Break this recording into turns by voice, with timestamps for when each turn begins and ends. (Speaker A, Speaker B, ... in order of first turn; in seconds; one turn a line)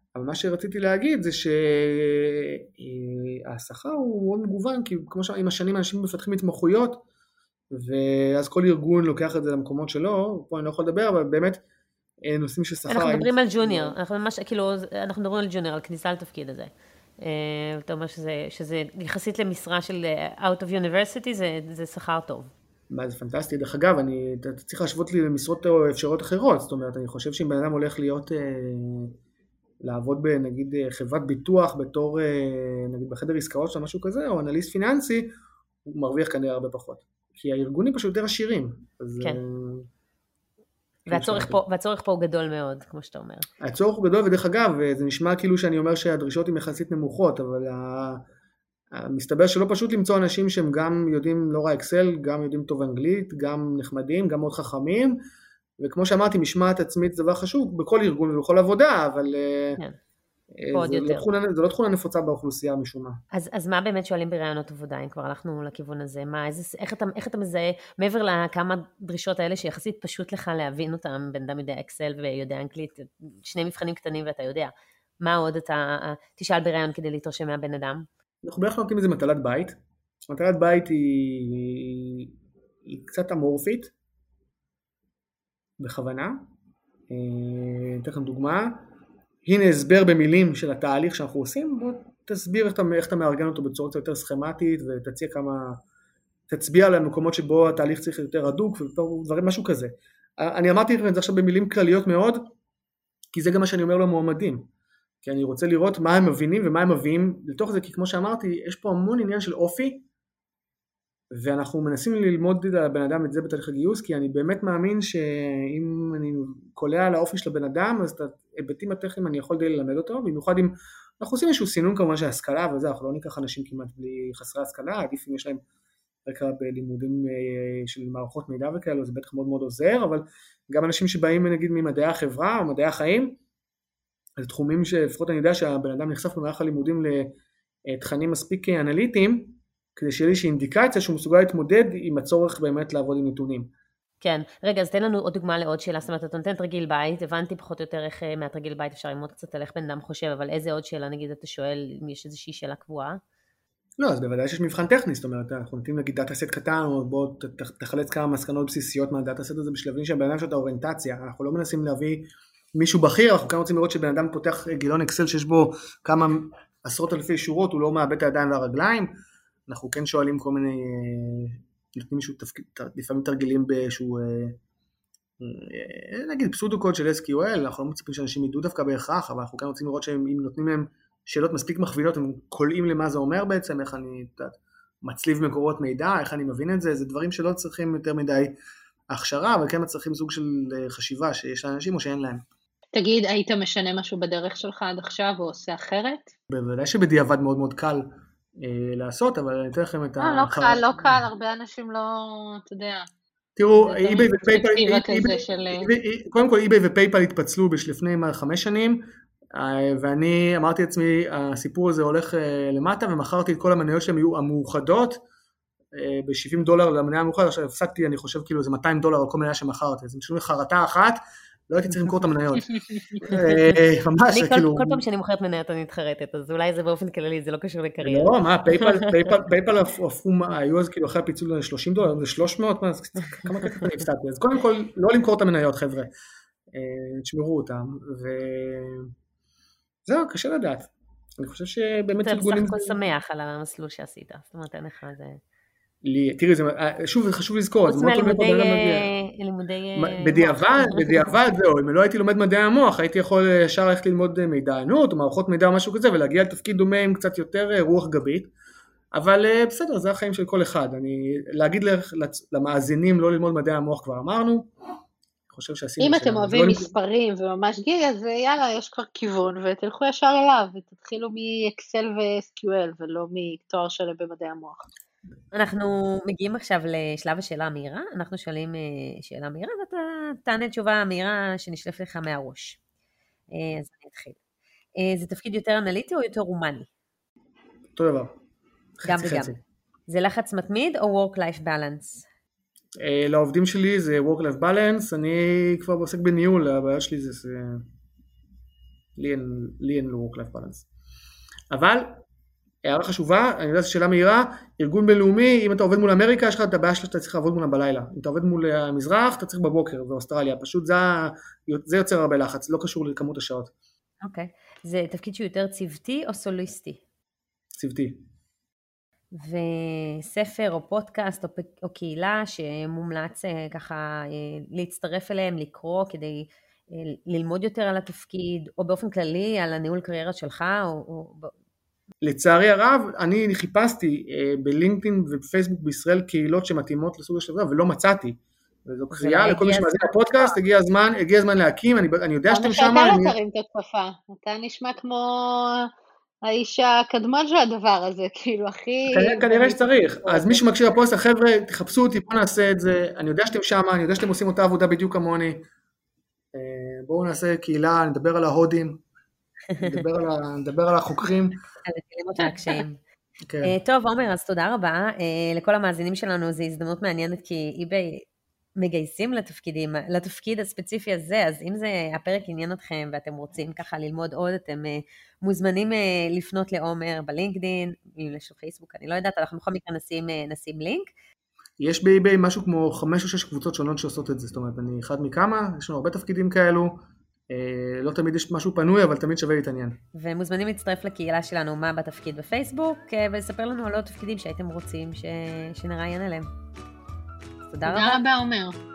Speaker A: 0.1-7.0
Speaker A: 7.7-11.6
Speaker A: 12.2-13.9
Speaker B: 12.9-22.5
Speaker A: 22.9-29.1
Speaker A: 29.8-35.3
Speaker A: 35.8-39.9
Speaker B: 41.1-43.5
Speaker A: 41.1-41.6
Speaker A: 43.6-48.2
Speaker A: 48.9-55.2
Speaker A: 55.8-59.8
Speaker A: 60.6-63.2
Speaker B: 60.7-61.3
Speaker B: 63.3-78.1
Speaker A: 78.4-79.7
Speaker A: 80.3-82.3
Speaker A: 82.8-83.9
Speaker A: 85.8-86.4
Speaker A: 87.1-88.8
Speaker A: 89.4-95.8
Speaker A: 96.5-102.5
Speaker A: 103.3-104.7
Speaker A: 105.2-110.0
Speaker A: 111.3-125.6
Speaker A: 126.2-133.4
Speaker A: 134.4-137.3
Speaker A: 137.9-143.7
Speaker B: 144.2-153.2
Speaker A: 154.0-169.1
Speaker A: 169.7-174.6
Speaker A: 175.4-188.5
Speaker A: 189.1-192.4
Speaker C: 192.9-196.3
Speaker A: 196.5-198.1
Speaker A: 198.6-201.2
Speaker C: 200.2-203.1
Speaker A: 203.6-209.0
Speaker C: 203.7-205.9
Speaker A: 209.5-215.2
Speaker A: 215.9-225.0
Speaker B: 223.2-229.4
Speaker A: 228.0-236.1
Speaker A: 236.7-239.1
Speaker A: 240.1-243.0
Speaker B: 242.2-245.4
Speaker A: 246.0-249.1
Speaker B: 247.8-251.4
Speaker A: 249.9-258.5
Speaker A: 259.1-264.7
Speaker A: 265.5-266.9
Speaker C: 266.0-274.9
Speaker B: 275.5-282.8
Speaker B: 283.5-284.4
Speaker B: 284.9-286.9
Speaker A: 287.9-288.3
Speaker A: 289.0-289.6
Speaker B: 289.0-289.5
Speaker B: 290.1-292.2
Speaker A: 293.0-297.8
Speaker A: 299.1-300.9
Speaker A: 301.7-302.2
Speaker A: 302.8-313.7
Speaker B: 314.2-317.0
Speaker A: 317.8-318.2
Speaker B: 319.3-331.5
Speaker A: 332.2-343.3
Speaker B: 339.1-340.6
Speaker C: 342.5-345.9
Speaker C: 346.4-350.6
Speaker A: 349.1-355.6
Speaker A: 356.5-359.0
Speaker B: 359.7-360.0
Speaker A: 359.8-361.6
Speaker B: 361.8-363.0
Speaker C: 362.4-362.8
Speaker A: 363.5-363.7
Speaker B: 363.6-368.2
Speaker B: 368.8-381.1
Speaker A: 381.8-390.0
Speaker B: 390.1-396.5
Speaker B: 397.7-398.2
Speaker C: 397.9-398.8